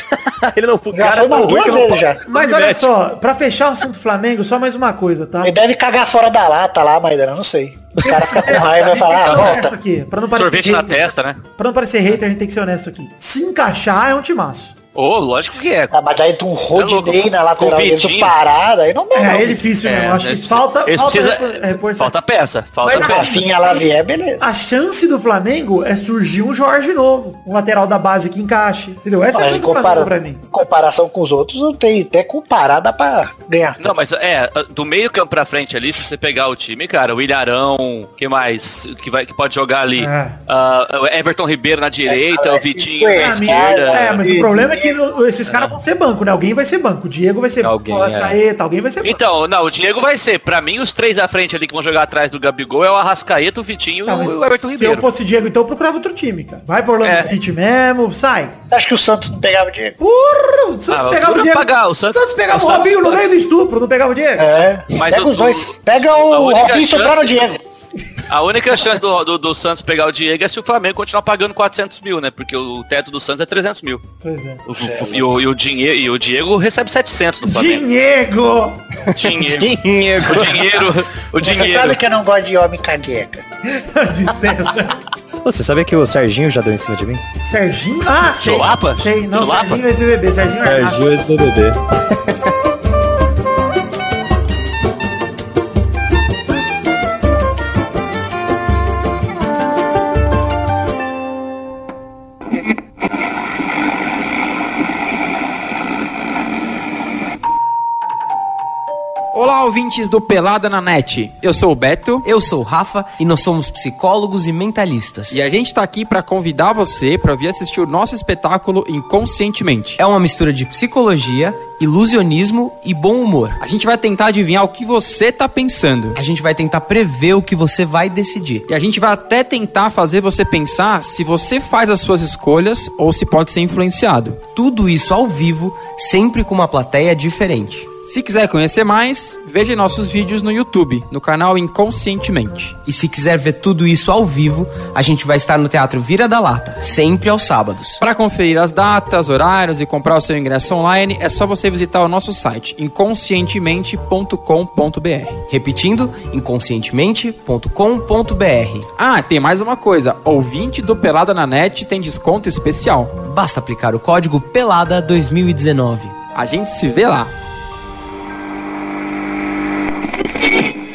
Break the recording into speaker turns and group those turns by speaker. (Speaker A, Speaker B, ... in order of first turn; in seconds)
Speaker A: 0.1-2.1, 47.6-48.4, 79.1-80.8, 85.4-87.2, 90.5-92.4
Speaker B: 0.9-2.2, 5.4-9.7, 15.9-19.7, 22.9-24.4, 29.3-33.9, 42.1-45.0, 58.7-60.0, 64.4-67.6, 74.7-75.3, 81.4-83.5
Speaker C: 2.3-5.5, 8.0-14.7, 19.1-22.1, 22.8-23.9, 24.4-30.4, 40.0-40.4, 43.2-49.2, 54.1-58.6, 60.0-64.5, 74.2-74.6, 77.4-78.8, 83.7-85.0, 87.4-91.2
Speaker D: 2.3-2.9, 9.2-9.6, 10.3-11.4, 14.9-15.9, 16.7-18.3, 19.8-23.4, 33.8-44.2, 49.0-55.1, 57.0-57.3, 60.9-63.2, 64.9-67.6, 68.3-74.0, 74.7-77.8, 79.1-82.0, 88.3-89.9
Speaker E: 109.3-112.2, 115.3-120.0, 123.6-126.2, 128.7-134.5, 138.0-142.8, 148.0-155.4, 159.0-163.2, 166.3-167.3
Speaker F: 112.2-115.4, 120.0-123.6, 126.2-128.7, 134.5-137.9, 142.8-148.0, 155.5-158.9, 163.2-166.2